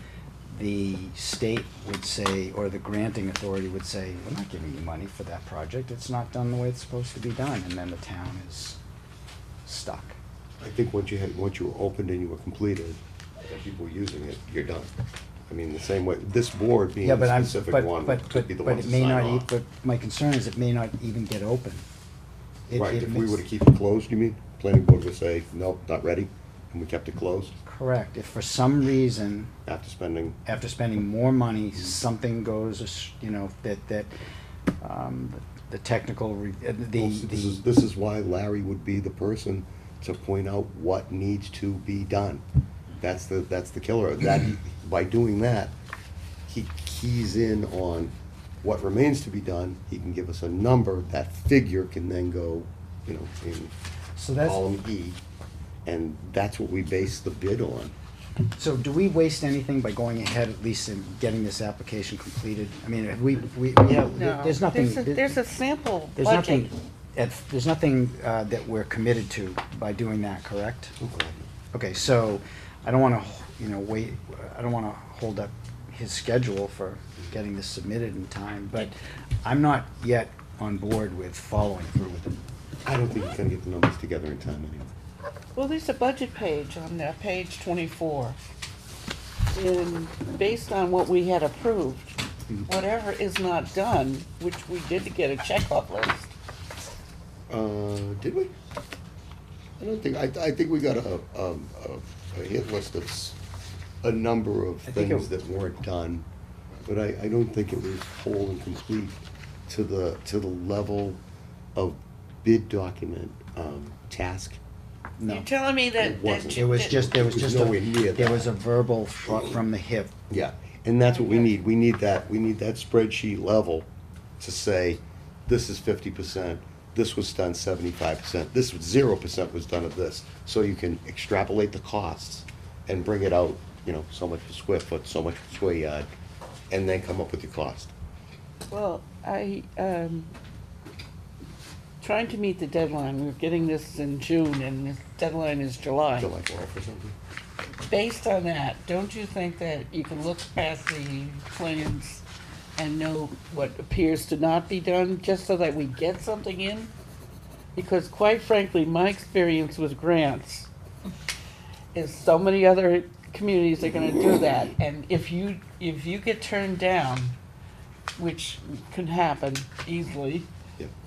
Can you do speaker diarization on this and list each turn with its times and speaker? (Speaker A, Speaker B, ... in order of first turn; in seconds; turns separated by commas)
Speaker A: 0.5-8.8, Speaker A: 9.7-10.2, Speaker B: 10.6-14.9, Speaker B: 15.5-19.5, Speaker A: 17.0-21.9, Speaker A: 22.7-23.4, Speaker B: 22.7-27.6, Speaker A: 27.7-29.5, Speaker B: 29.7-30.4, Speaker A: 30.5-34.1, Speaker A: 34.8-37.6, Speaker B: 37.0-42.4, Speaker B: 43.0-45.8, Speaker B: 46.5-53.7, Speaker A: 54.2-54.6, Speaker B: 54.4-55.2, Speaker B: 55.9-58.0, Speaker A: 58.6-65.4, Speaker C: 64.2-66.7, Speaker A: 66.2-71.0, Speaker B: 71.0-71.5, Speaker A: 71.7-82.4, Speaker B: 82.9-84.9, Speaker C: 85.6-88.4, Speaker C: 89.5-96.3, Speaker B: 97.5-98.5, Speaker B: 99.8-103.4, Speaker B: 104.0-106.3, Speaker A: 104.9-105.3, Speaker B: 106.9-111.2, Speaker B: 111.8-114.6, Speaker A: 115.2-115.5, Speaker C: 115.3-116.9, Speaker B: 116.0-118.5, Speaker A: 116.5-120.2, Speaker B: 119.3-119.6, Speaker B: 120.3-123.9, Speaker C: 121.1-121.5, Speaker B: 124.4-136.1, Speaker B: 136.7-137.9, Speaker C: 138.7-140.3, Speaker C: 142.0-146.3, Speaker B: 146.2-147.2, Speaker C: 147.8-152.2, Speaker C: 152.8-156.9, Speaker C: 157.8-160.7, Speaker C: 161.9-167.4, Speaker C: 168.2-170.5